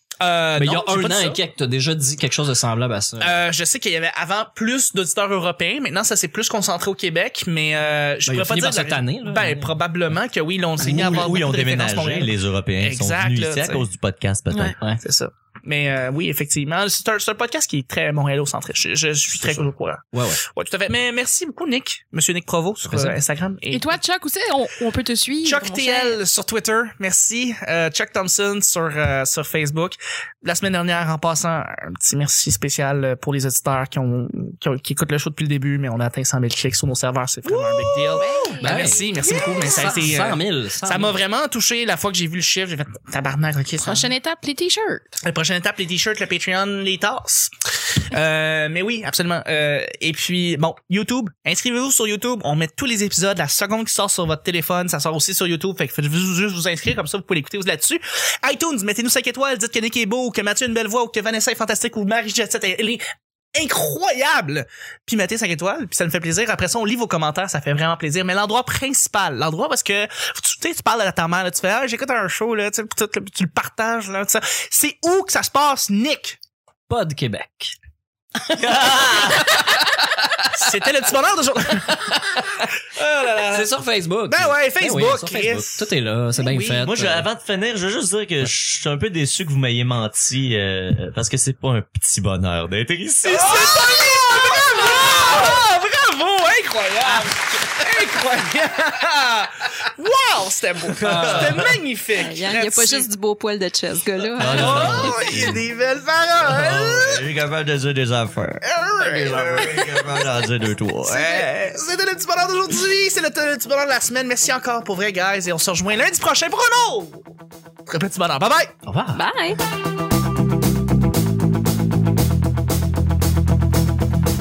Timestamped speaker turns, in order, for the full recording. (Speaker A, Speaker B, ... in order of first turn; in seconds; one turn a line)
Speaker A: 0.2-1.4
Speaker B: 0.6-3.4
Speaker A: 3.2-13.9
Speaker B: 8.3-9.8
Speaker C: 10.8-14.8
Speaker A: 15.0-23.9
Speaker B: 20.1-20.4
Speaker B: 22.9-23.2
Speaker D: 23.7-26.2
Speaker A: 25.4-44.1
Speaker E: 37.9-40.0
Speaker D: 38.2-39.9
Speaker B: 38.6-39.0
Speaker B: 39.6-41.2
Speaker D: 43.8-45.2
Speaker A: 45.2-76.4
Speaker B: 76.9-77.7
Speaker B: 78.4-80.8
Speaker C: 78.6-79.7
Speaker A: 80.5-83.7
Speaker B: 81.9-82.7
Speaker B: 83.5-87.2
Speaker A: 84.3-86.9
Speaker C: 86.8-94.2
Speaker A: 93.2-103.1
Speaker C: 101.0-101.8
Speaker B: 101.0-101.7
Speaker E: 102.2-105.3
Speaker C: 104.4-105.6
Speaker A: 104.4-107.3
Speaker C: 106.4-111.5
Speaker A: 108.6-110.3
Speaker A: 111.0-117.3
Speaker A: 117.9-118.7
Speaker B: 118.9-119.2
Speaker E: 119.1-119.6